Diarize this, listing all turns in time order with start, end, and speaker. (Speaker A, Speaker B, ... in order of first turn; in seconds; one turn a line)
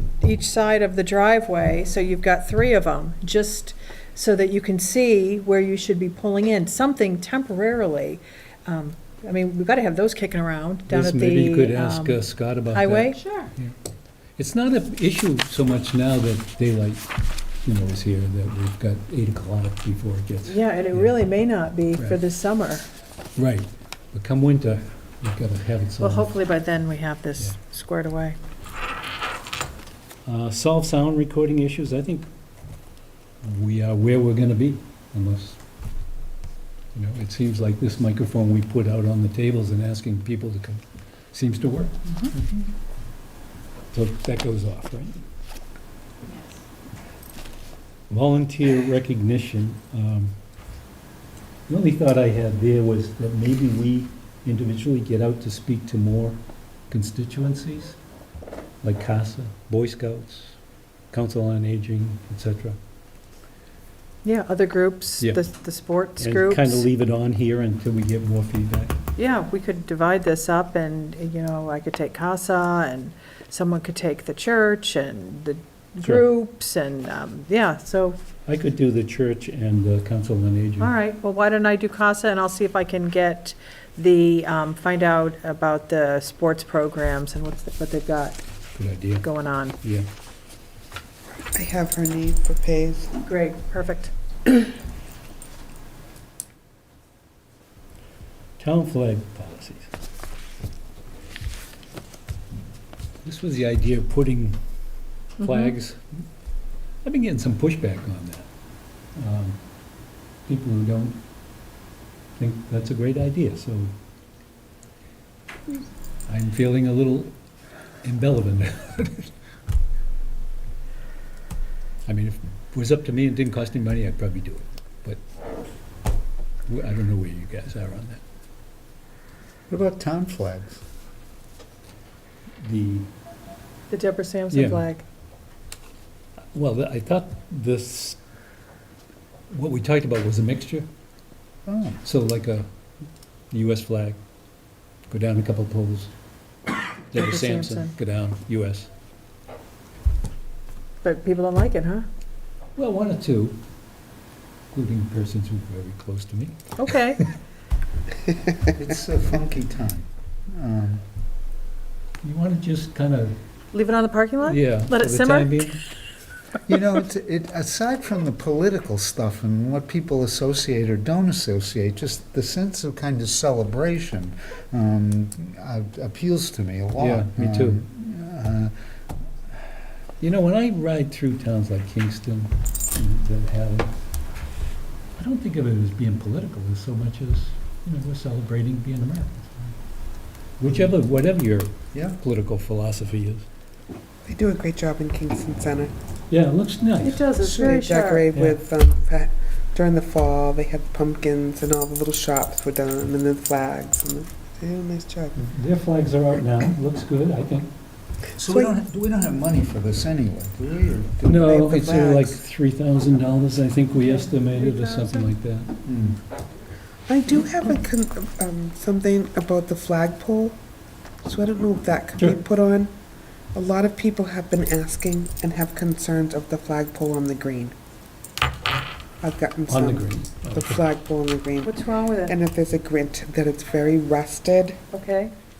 Speaker A: 0.2-13.3
Speaker B: 10.9-13.7
Speaker B: 14.4-17.1
Speaker B: 17.6-21.1
Speaker A: 20.4-22.9
Speaker B: 21.9-22.2
Speaker B: 23.4-26.3
Speaker A: 26.0-28.4
Speaker B: 30.2-32.3
Speaker B: 33.4-35.6
Speaker B: 36.9-42.7
Speaker B: 43.9-45.2
Speaker B: 48.1-50.4
Speaker B: 51.7-56.4
Speaker B: 56.9-58.0
Speaker B: 58.8-60.6
Speaker B: 61.1-62.8
Speaker A: 64.2-66.9
Speaker B: 66.2-69.0
Speaker A: 69.2-78.2
Speaker B: 78.5-80.9
Speaker A: 80.8-88.4
Speaker B: 88.8-89.3
Speaker A: 89.2-89.8
Speaker B: 89.8-90.1
Speaker C: 91.4-93.2
Speaker A: 93.2-94.1
Speaker B: 98.6-99.9
Speaker B: 103.2-104.6
Speaker B: 105.4-106.2
Speaker A: 105.4-105.7
Speaker B: 107.0-108.5
Speaker B: 109.2-109.6
Speaker B: 110.5-111.2
Speaker B: 112.4-114.0
Speaker B: 116.3-117.3
Speaker B: 118.0-119.3
Speaker B: 122.0-125.2
Speaker B: 126.7-128.2
Speaker D: 129.7-130.8
Speaker B: 132.6-133.1
Speaker A: 133.9-135.0
Speaker B: 134.5-134.8
Speaker B: 136.5-138.2
Speaker B: 139.5-140.9
Speaker D: 141.7-142.0
Speaker B: 142.0-142.7
Speaker B: 143.5-144.2
Speaker B: 145.1-146.1
Speaker B: 147.1-148.9
Speaker A: 147.1-147.9
Speaker A: 151.0-152.1
Speaker B: 152.8-153.6
Speaker B: 154.7-156.8
Speaker A: 156.8-157.2
Speaker D: 158.7-161.0
Speaker B: 162.2-163.4
Speaker A: 163.7-165.8
Speaker B: 164.4-165.8
Speaker D: 166.7-178.7
Speaker B: 177.0-177.8
Speaker B: 180.2-183.9
Speaker B: 185.2-189.8
Speaker B: 190.6-193.5
Speaker D: 191.9-192.2
Speaker C: 194.2-195.9
Speaker B: 196.3-197.3
Speaker A: 197.0-198.3
Speaker C: 197.4-205.4
Speaker B: 198.3-198.6
Speaker B: 205.3-207.7
Speaker D: 208.3-211.5
Speaker C: 208.5-208.8
Speaker B: 211.2-215.8
Speaker C: 211.3-212.4
Speaker A: 214.0-215.3
Speaker D: 215.8-216.2
Speaker C: 217.1-220.6
Speaker C: 221.2-222.9
Speaker C: 223.5-227.7
Speaker C: 229.2-234.8
Speaker B: 229.7-230.8
Speaker A: 231.6-232.3
Speaker A: 234.9-235.3